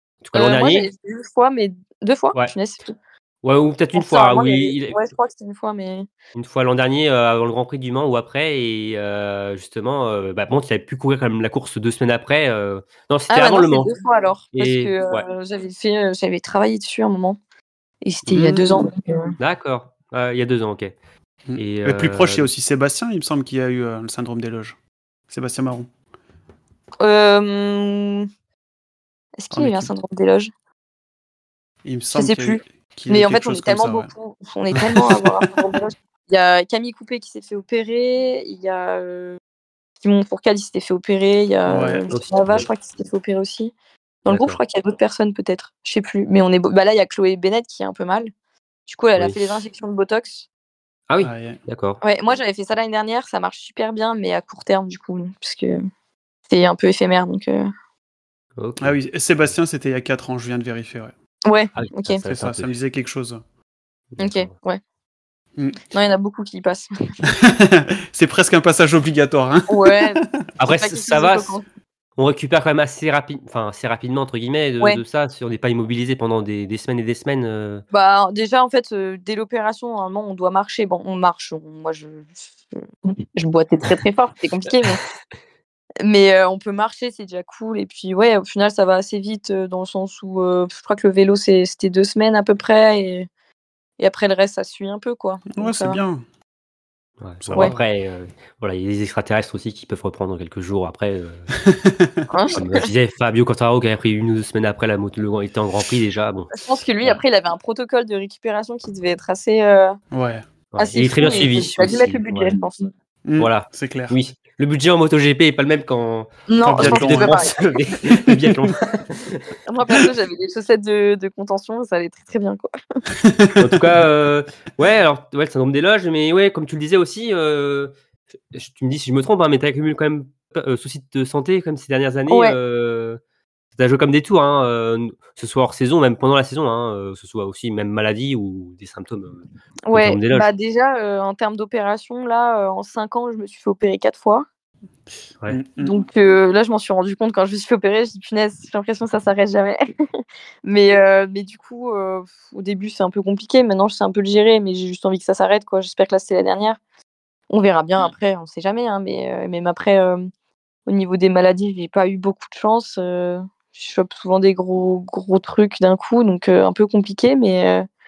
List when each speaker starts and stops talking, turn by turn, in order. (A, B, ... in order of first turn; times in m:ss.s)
0:00.2-0:00.9 A
0:00.3-0:02.9 B
0:03.4-0:05.1 A
0:03.9-0:06.1 B
0:06.3-0:13.9 A
0:13.3-0:17.4 B
0:14.5-0:15.2 A
0:18.0-0:19.3 B
0:18.3-0:18.6 A
0:18.3-0:18.7 C
0:19.4-0:20.9 A
0:21.5-0:24.8 C
0:21.6-0:22.5 A
0:25.3-0:25.9 C
0:27.0-0:28.3 B
0:29.4-0:30.5 B
0:29.5-0:29.9 C
0:31.8-0:34.1 C
0:32.1-0:39.4 B
0:34.9-0:35.2 C
0:40.0-0:43.7 B
0:41.7-0:42.0 C
0:41.7-0:42.7 A
0:44.2-0:48.3 B
0:44.3-0:44.6 A
0:48.9-0:50.4 B
0:49.2-0:49.6 A
0:51.1-0:52.0 A
0:51.2-0:51.6 C
0:52.0-0:55.8 B
0:56.5-0:57.7 B
0:58.6-0:59.0 A
0:58.8-1:01.1 C
1:01.5-1:02.2 B
1:01.8-1:02.7 A
1:02.2-1:03.4 C
1:04.2-1:04.5 A
1:04.2-1:04.8 B
1:05.9-1:06.9 B
1:07.2-1:10.4 C
1:09.7-1:11.6 B
1:10.6-1:11.6 A
1:12.2-1:17.8 A
1:17.9-1:22.8 B
1:23.4-1:25.0 B
1:26.0-1:33.3 B
1:34.0-1:36.0 B
1:35.5-1:36.2 C
1:37.2-1:41.5 A
1:37.4-1:37.7 C
1:41.6-1:42.2 C
1:42.3-1:42.9 B
1:42.5-1:47.2 A
1:46.6-1:50.0 B
1:50.1-1:50.5 C
1:50.7-1:52.6 A
1:50.8-1:52.9 B
1:53.2-1:54.2 C
1:53.4-1:59.5 A
1:56.5-1:57.5 B
1:56.6-1:57.3 C
1:59.7-2:02.7 B
2:03.2-2:03.8 C
2:03.6-2:07.9 A
2:08.5-2:13.2 A
2:12.3-2:12.6 B
2:13.8-2:20.5 A
2:19.9-2:24.4 B
2:25.5-2:26.0 C
2:25.8-2:36.8 B
2:37.5-2:40.2 B
2:40.9-2:47.8 B